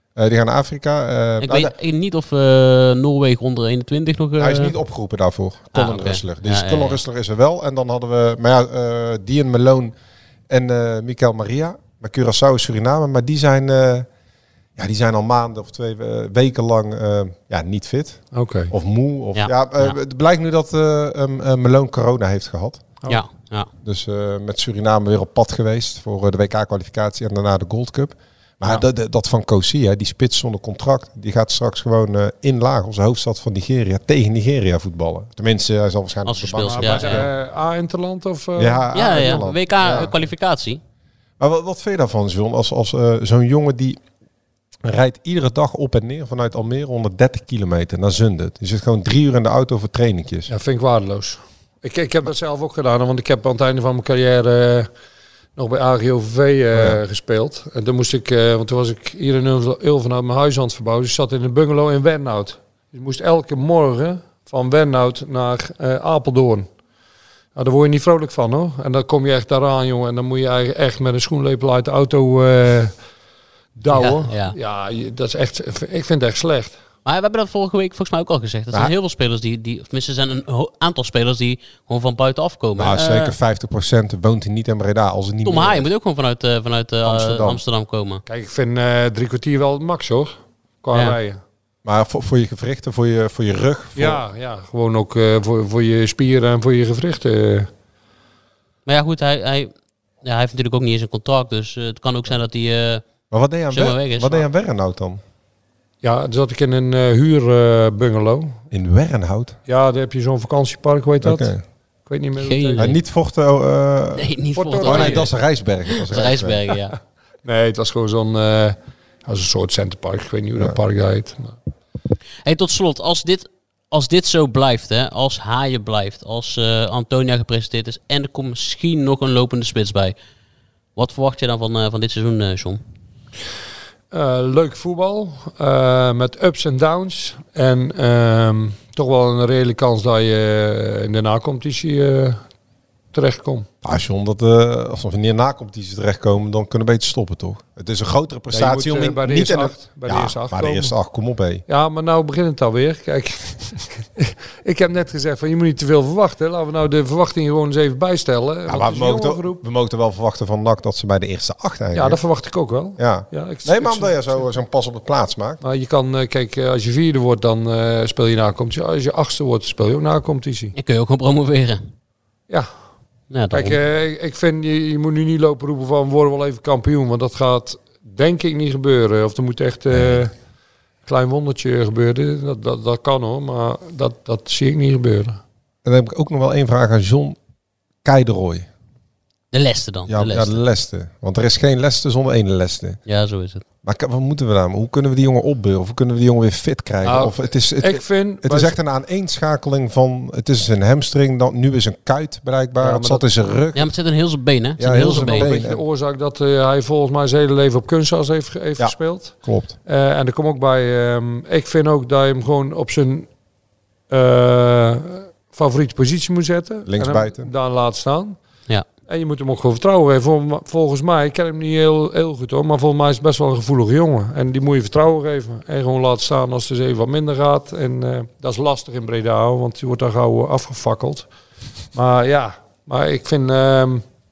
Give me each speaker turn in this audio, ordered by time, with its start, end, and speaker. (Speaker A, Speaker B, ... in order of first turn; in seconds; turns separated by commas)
Speaker A: 0.2-1.7, Speaker B: 1.4-4.7, Speaker A: 4.4-9.9, Speaker B: 5.7-7.0, Speaker A: 10.5-14.1, Speaker A: 14.8-23.0, Speaker C: 18.3-18.7, Speaker B: 19.4-20.0, Speaker B: 23.1-23.7, Speaker A: 23.8-37.3, Speaker B: 36.3-37.2, Speaker C: 36.5-39.5, Speaker A: 38.6-40.1, Speaker B: 38.9-40.8, Speaker A: 41.4-44.0, Speaker A: 44.8-50.5, Speaker C: 50.5-54.9, Speaker C: 55.6-66.7, Speaker C: 67.5-73.0, Speaker C: 73.8-76.8, Speaker B: 73.9-74.5, Speaker B: 77.0-83.3, Speaker A: 82.8-85.9, Speaker B: 85.5-88.2, Speaker A: 87.0-87.6, Speaker C: 88.3-91.4, Speaker A: 91.8-94.2, Speaker C: 94.0-97.7, Speaker B: 98.9-103.0, Speaker A: 103.3-105.2, Speaker B: 103.7-104.4, Speaker C: 106.0-108.6, Speaker A: 108.7-109.6, Speaker C: 109.7-111.5, Speaker A: 111.2-111.6, Speaker C: 112.1-112.9, Speaker B: 112.4-113.0, Speaker A: 112.8-116.6, Speaker B: 114.2-115.3, Speaker C: 114.6-115.3, Speaker B: 115.9-117.0, Speaker C: 117.4-121.6, Speaker B: 122.4-130.2, Speaker B: 131.0-132.8, Speaker C: 134.1-142.4, Speaker C: 143.1-143.7, Speaker A: 143.8-151.6, Speaker C: 148.5-150.9, Speaker C: 151.7-159.6, Speaker A: 158.7-162.2, Speaker C: 161.9-164.5, Speaker A: 163.0-165.6, Speaker C: 165.6-170.7, Speaker B: 170.7-171.8, Speaker B: 173.3-173.8, Speaker C: 173.5-180.3, Speaker A: 179.9-180.2, Speaker C: 181.1-185.4, Speaker A: 185.8-187.4, Speaker A: 188.0-188.7, Speaker B: 189.5-190.6, Speaker A: 190.1-193.0, Speaker B: 193.1-193.6, Speaker A: 193.8-203.9, Speaker C: 197.0-198.8, Speaker C: 202.8-203.4, Speaker B: 203.8-205.5, Speaker A: 204.8-205.8, Speaker C: 204.9-213.3, Speaker A: 208.8-209.7, Speaker C: 214.1-218.4, Speaker A: 216.9-217.5, Speaker C: 219.1-231.3, Speaker C: 231.9-234.0